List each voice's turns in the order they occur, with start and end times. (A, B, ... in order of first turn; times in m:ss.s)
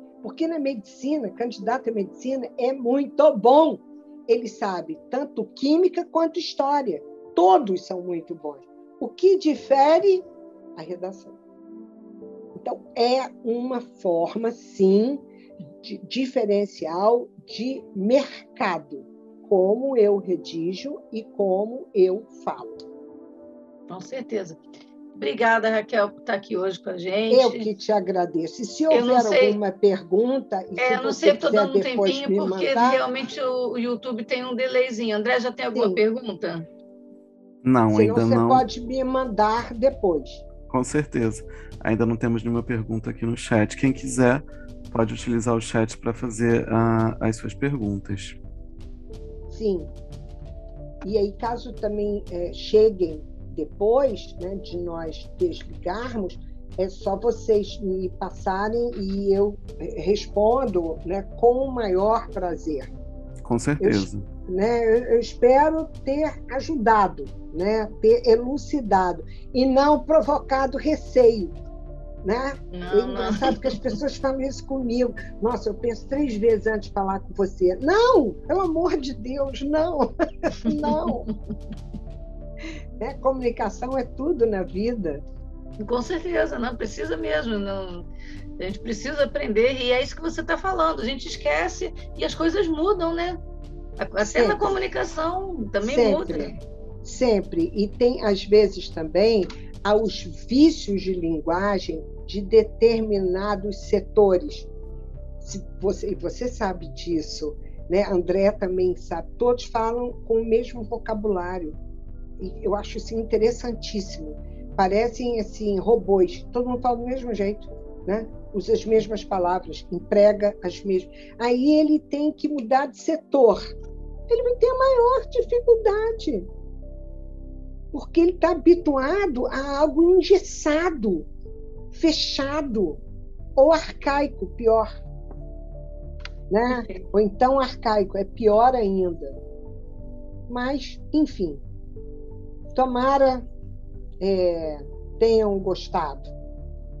0:00.2-0:11.4 A
0:12.5-0:15.2 A
0:15.8-0:22.8 A
0:23.9-0:24.6 B
0:25.2-0:27.7 B
0:27.3-0:33.0 A
0:28.9-0:29.6 B
0:30.8-0:36.6 B
0:35.7-0:36.0 A
0:37.6-0:38.6 C
0:37.9-0:40.4 A
0:40.7-0:48.4 C
0:49.5-0:49.9 A
0:51.0-1:02.9 A
1:03.4-1:04.2 C
1:03.8-1:11.5 A
1:12.2-1:21.3 A
1:12.7-1:13.8 B
1:20.7-1:21.1 B
1:23.0-1:25.2 A
1:25.8-1:28.0 B
1:28.6-1:33.4 B
1:34.0-1:36.6 B
1:34.2-1:34.7 A
1:35.8-1:44.7 A
1:45.4-1:51.8 A
1:52.4-2:03.7 A
2:04.3-2:06.5 A
2:07.9-2:11.3 A
2:11.9-2:13.0 A
2:13.6-2:14.9 A
2:16.5-2:19.4 A
2:16.7-2:17.0 B
2:20.5-2:21.6 A
2:22.7-2:23.4 A
2:24.2-2:26.3 A